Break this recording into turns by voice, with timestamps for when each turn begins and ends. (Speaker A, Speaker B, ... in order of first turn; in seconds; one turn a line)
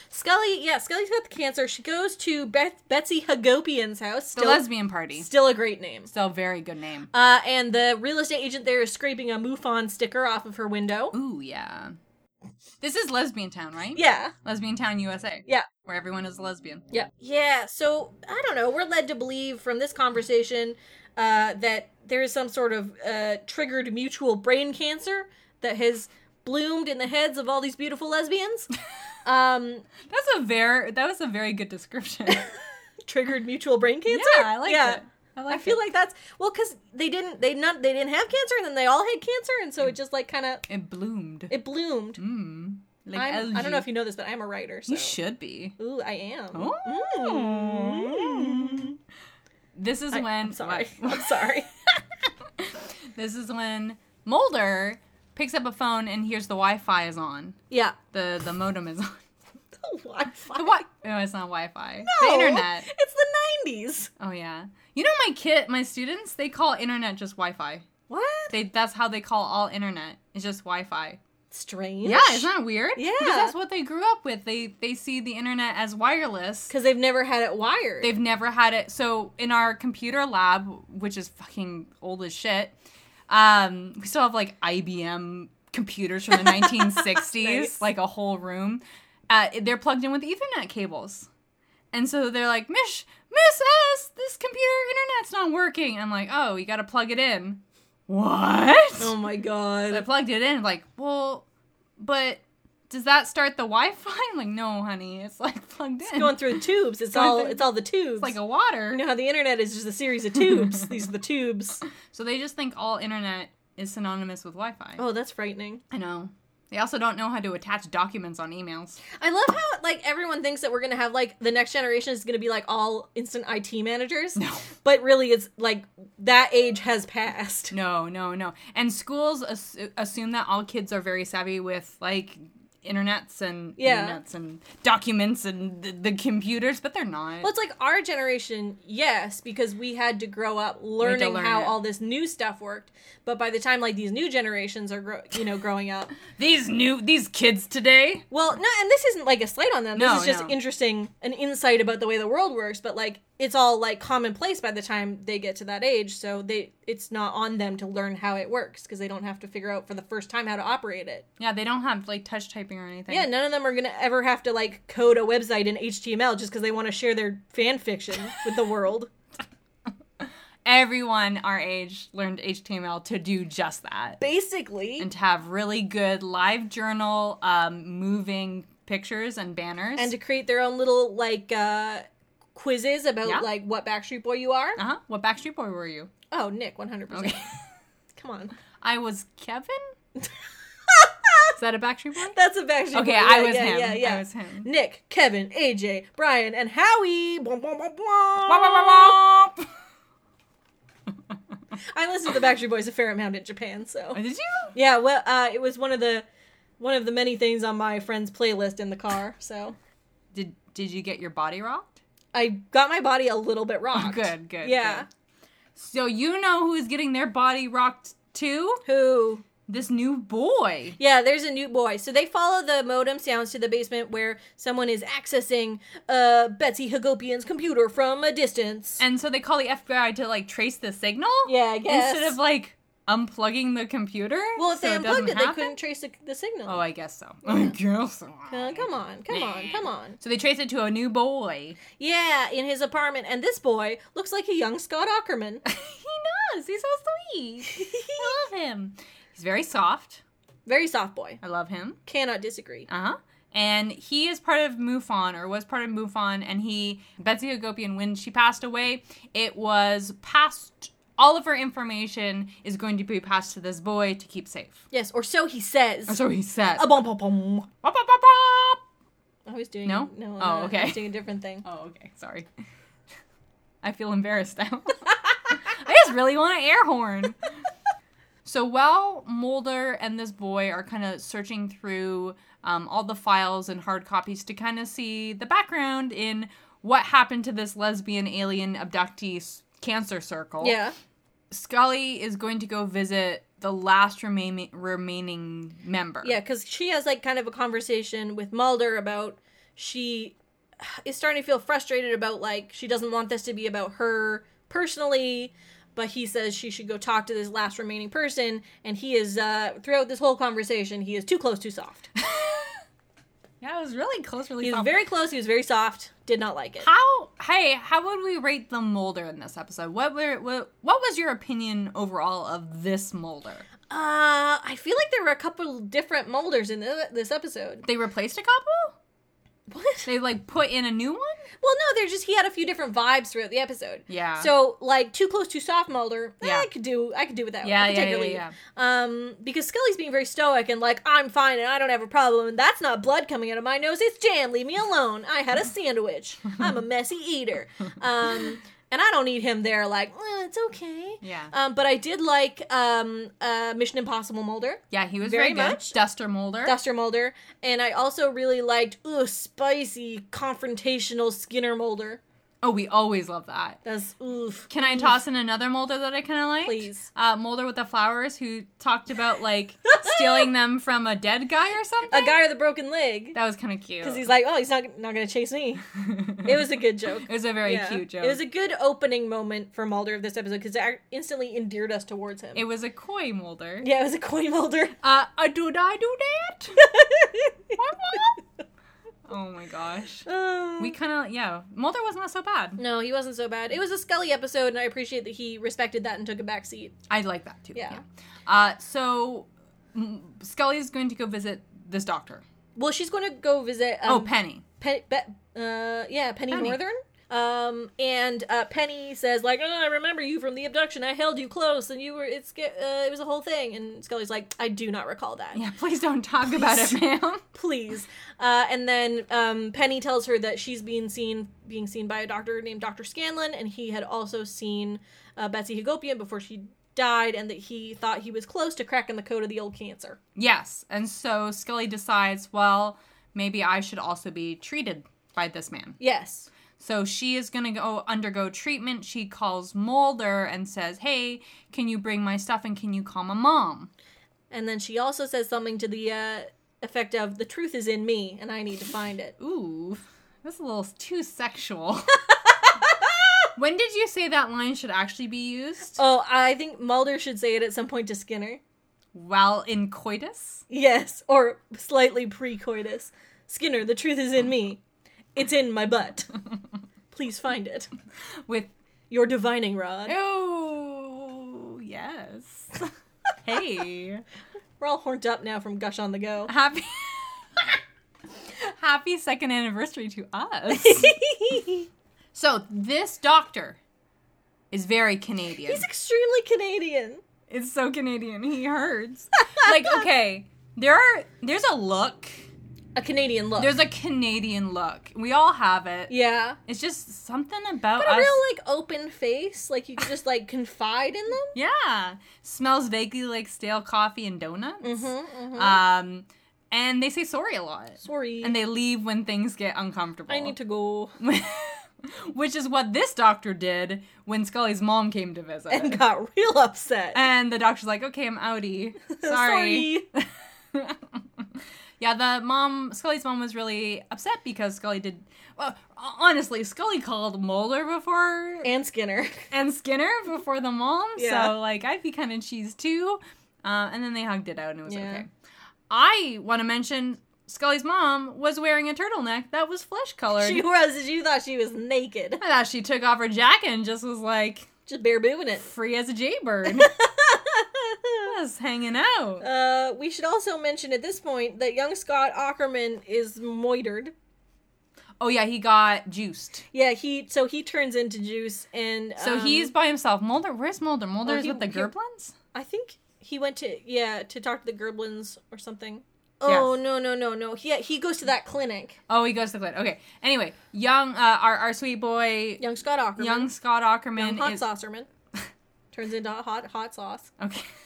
Speaker A: 0.1-6.1
Speaker B: 4.4-5.3
Speaker B: 6.1-7.1
Speaker A: 7.1-11.2
Speaker B: 11.1-12.0
Speaker B: 12.8-16.8
Speaker A: 13.9-14.3
Speaker A: 16.9-28.7
Speaker A: 29.2-29.9
Speaker B: 30.1-32.5
Speaker A: 33.1-40.7
Speaker B: 34.1-35.9
Speaker B: 40.7-41.5
Speaker A: 41.5-42.2
Speaker B: 42.2-43.9
Speaker A: 43.1-45.1
Speaker B: 44.9-45.8
Speaker A: 45.8-49.0
Speaker B: 46.5-48.9
Speaker B: 49.8-51.6
Speaker A: 50.1-51.7
Speaker B: 52.6-57.6
Speaker A: 57.7-58.0
Speaker B: 58.1-59.2
Speaker A: 59.8-60.8
Speaker B: 60.5-62.9
Speaker A: 62.0-64.1
Speaker B: 64.2-67.9
Speaker A: 68.1-68.5
Speaker B: 68.5-71.2
Speaker A: 71.5-73.5
Speaker B: 72.0-76.7
Speaker A: 76.7-78.1
Speaker B: 78.0-82.7
Speaker B: 83.3-91.3
Speaker A: 86.4-87.8
Speaker B: 91.9-99.2
Speaker A: 99.0-100.1
Speaker B: 99.9-101.5
Speaker B: 102.0-106.6
Speaker A: 106.1-108.3
Speaker B: 107.1-109.0
Speaker A: 108.9-111.8
Speaker B: 112.1-115.0
Speaker A: 115.0-115.8
Speaker B: 115.9-119.0
Speaker A: 119.1-127.7
Speaker B: 124.4-124.7
Speaker B: 127.7-137.5
Speaker A: 133.8-134.2
Speaker A: 137.4-146.2
Speaker B: 141.0-141.8
Speaker B: 146.3-148.3
Speaker A: 148.3-161.3
Speaker B: 149.9-150.6
Speaker B: 161.4-163.3
Speaker A: 163.1-169.1
Speaker B: 170.2-174.2
Speaker A: 174.2-175.1
Speaker B: 175.0-180.1
Speaker A: 180.0-184.8
Speaker B: 184.8-186.1
Speaker A: 186.3-187.4
Speaker B: 187.1-187.6
Speaker A: 188.2-188.5
Speaker B: 188.8-189.9
Speaker A: 190.9-191.5
Speaker B: 191.6-192.4
Speaker A: 192.3-199.2
Speaker B: 192.9-194.7
Speaker B: 198.5-199.6
Speaker A: 201.9-204.2
Speaker B: 204.1-204.8
Speaker A: 204.7-206.3
Speaker A: 206.8-209.8
Speaker B: 210.3-212.0
Speaker A: 212.3-215.1
Speaker B: 213.9-215.1
Speaker B: 215.8-218.8
Speaker A: 218.9-219.4
Speaker B: 219.7-221.0
Speaker A: 221.0-229.0
Speaker B: 229.0-235.8
Speaker A: 231.4-232.4
Speaker A: 234.6-236.8
Speaker B: 236.7-241.8
Speaker A: 237.4-237.8
Speaker A: 238.5-240.2
Speaker A: 242.0-245.6
Speaker B: 245.7-250.2
Speaker A: 247.7-248.4
Speaker A: 250.7-251.4
Speaker B: 251.4-252.0
Speaker A: 252.1-252.9
Speaker B: 252.9-264.8
Speaker A: 264.9-266.2
Speaker B: 266.1-266.9
Speaker A: 266.8-267.7
Speaker B: 267.8-268.8
Speaker A: 269.5-271.6
Speaker B: 269.9-272.5
Speaker B: 273.8-277.4
Speaker B: 278.4-290.8
Speaker A: 290.6-290.9
Speaker B: 291.5-296.4
Speaker A: 296.2-312.1
Speaker B: 312.2-312.8
Speaker B: 313.6-314.9
Speaker A: 314.6-316.9
Speaker B: 316.8-323.7
Speaker A: 323.9-327.9
Speaker B: 327.9-329.0
Speaker A: 329.7-330.1
Speaker B: 330.1-331.4
Speaker A: 331.6-356.0
Speaker B: 334.1-334.5
Speaker B: 336.4-336.7
Speaker B: 337.6-338.6
Speaker B: 351.2-351.5
Speaker B: 354.9-356.8
Speaker A: 356.6-362.2
Speaker B: 362.6-363.8
Speaker A: 363.9-365.2
Speaker B: 364.7-372.4
Speaker A: 366.6-367.1
Speaker A: 369.9-370.5
Speaker A: 372.1-373.4
Speaker B: 373.4-374.2
Speaker A: 374.0-375.8
Speaker B: 376.0-376.6
Speaker A: 376.4-382.6
Speaker B: 377.2-378.4
Speaker B: 382.6-383.9
Speaker A: 383.8-384.9
Speaker B: 385.0-386.8
Speaker A: 386.8-387.8
Speaker B: 387.8-388.4
Speaker B: 389.3-390.3
Speaker A: 390.3-391.0
Speaker B: 390.8-392.8
Speaker A: 392.8-396.9
Speaker B: 397.1-402.4
Speaker A: 397.7-398.0
Speaker A: 402.8-415.6
Speaker B: 404.1-404.6
Speaker B: 406.5-406.8
Speaker B: 415.5-417.4
Speaker A: 416.5-417.0
Speaker A: 417.5-430.2
Speaker B: 430.4-436.0
Speaker A: 436.0-436.5
Speaker B: 436.8-443.9
Speaker A: 444.5-449.4
Speaker B: 449.4-452.2
Speaker A: 452.9-453.5
Speaker B: 453.6-456.0
Speaker A: 456.0-458.6
Speaker B: 459.1-460.6
Speaker A: 460.7-464.8
Speaker A: 465.4-466.3
Speaker A: 467.1-467.9
Speaker A: 469.1-470.1
Speaker B: 470.1-472.9
Speaker B: 473.4-474.2
Speaker A: 474.8-476.5
Speaker B: 476.5-477.8
Speaker B: 478.6-481.2
Speaker A: 480.7-481.9
Speaker B: 482.3-483.8
Speaker B: 484.7-485.9
Speaker A: 485.7-487.2
Speaker B: 487.5-492.4
Speaker A: 489.6-490.0
Speaker A: 493.0-493.8
Speaker B: 493.6-496.1
Speaker A: 496.1-496.6
Speaker B: 496.7-498.4
Speaker A: 498.0-501.6
Speaker B: 501.5-510.6
Speaker A: 504.8-505.8
Speaker A: 508.0-508.5
Speaker A: 510.3-511.2
Speaker B: 511.2-516.0
Speaker A: 515.7-517.2
Speaker B: 517.1-521.2
Speaker A: 519.1-520.1
Speaker B: 522.0-528.7
Speaker A: 528.6-529.5
Speaker B: 529.5-535.3
Speaker A: 531.2-531.5
Speaker A: 534.9-535.2
Speaker B: 535.9-540.6
Speaker A: 540.4-542.4
Speaker B: 542.4-544.7
Speaker A: 544.9-545.7
Speaker B: 545.6-546.9
Speaker A: 546.7-548.3
Speaker B: 548.2-549.5
Speaker A: 549.4-554.1
Speaker B: 555.2-556.6
Speaker A: 556.7-559.7
Speaker B: 559.2-562.4
Speaker A: 561.2-561.9
Speaker A: 562.5-569.0
Speaker B: 566.5-566.7
Speaker B: 569.1-572.6
Speaker A: 572.6-573.5
Speaker B: 573.2-574.6
Speaker A: 574.2-575.1
Speaker A: 575.9-577.3
Speaker B: 577.4-577.7